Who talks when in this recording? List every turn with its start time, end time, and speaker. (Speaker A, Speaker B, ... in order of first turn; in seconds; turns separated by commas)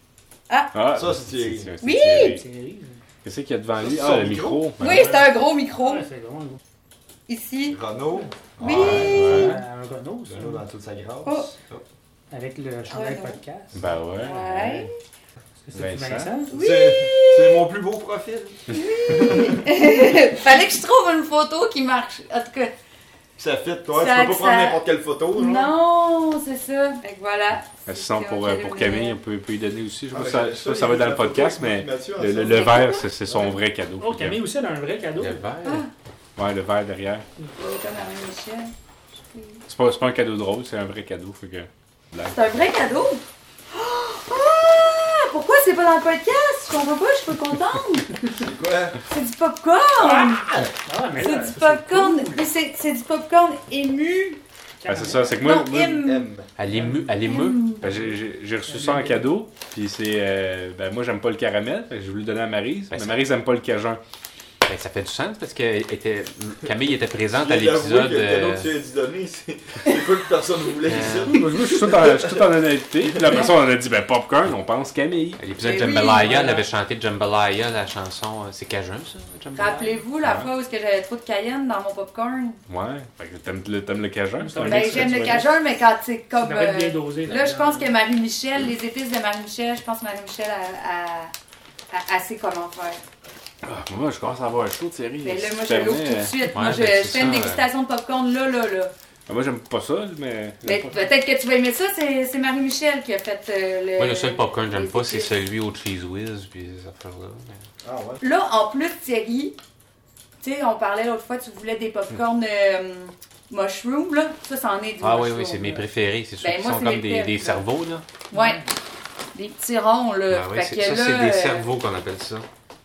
Speaker A: 0.5-0.8, Speaker B: 0.7-2.4, Speaker C: 0.9-1.8, Speaker A: 1.8-2.4, Speaker D: 2.2-3.0, Speaker B: 3.2-5.3, Speaker C: 3.8-4.7, Speaker A: 4.8-6.1, Speaker D: 5.8-6.6, Speaker A: 7.3-7.8, Speaker C: 7.7-9.3, Speaker A: 8.6-9.6, Speaker B: 8.6-9.6, Speaker D: 8.9-10.6, Speaker C: 10.3-11.8, Speaker A: 11.2-11.5, Speaker D: 12.3-13.9, Speaker A: 12.9-13.4, Speaker B: 13.7-14.9, Speaker A: 14.2-14.9, Speaker D: 15.7-16.6, Speaker B: 15.7-16.3, Speaker A: 16.5-17.7, Speaker C: 16.5-19.7, Speaker A: 18.7-22.7, Speaker C: 23.4-25.7, Speaker A: 23.9-29.2, Speaker B: 27.9-34.4, Speaker C: 30.1-33.5, Speaker A: 32.5-33.0, Speaker D: 34.0-35.5, Speaker E: 35.2-35.8, Speaker A: 35.6-35.9, Speaker B: 36.4-37.2, Speaker A: 37.6-38.7, Speaker A: 39.3-39.6, Speaker B: 39.7-42.7, Speaker A: 42.2-48.1, Speaker C: 48.3-49.0, Speaker A: 49.1-50.5, Speaker D: 50.0-52.5, Speaker A: 51.2-54.4, Speaker D: 54.8-55.3, Speaker B: 54.9-56.1, Speaker A: 55.2-56.3, Speaker C: 56.0-56.5, Speaker E: 56.6-57.7, Speaker D: 56.7-57.0, Speaker A: 57.1-57.9, Speaker D: 57.8-58.1, Speaker B: 57.8-64.0, Speaker D: 58.7-59.3, Speaker E: 62.9-63.2, Speaker E: 64.7-68.8, Speaker C: 67.4-72.5, Speaker E: 70.8-71.4, Speaker B: 71.3-75.4, Speaker C: 73.0-73.4, Speaker E: 75.4-80.0, Speaker A: 75.6-76.6, Speaker A: 79.5-82.6, Speaker B: 80.2-80.5, Speaker B: 82.7-85.5, Speaker D: 84.4-85.5, Speaker A: 84.6-91.3, Speaker D: 86.3-87.9, Speaker A: 91.9-93.0, Speaker B: 93.6-96.5, Speaker A: 95.2-98.9, Speaker E: 96.5-97.7, Speaker B: 99.3-101.1, Speaker A: 100.6-105.3, Speaker E: 104.0-107.6, Speaker C: 107.8-108.2, Speaker A: 108.2-109.6, Speaker A: 110.4-115.8, Speaker E: 115.0-118.1, Speaker A: 116.4-117.6, Speaker A: 118.3-118.7, Speaker D: 118.3-118.7, Speaker A: 119.3-121.7, Speaker E: 120.3-122.5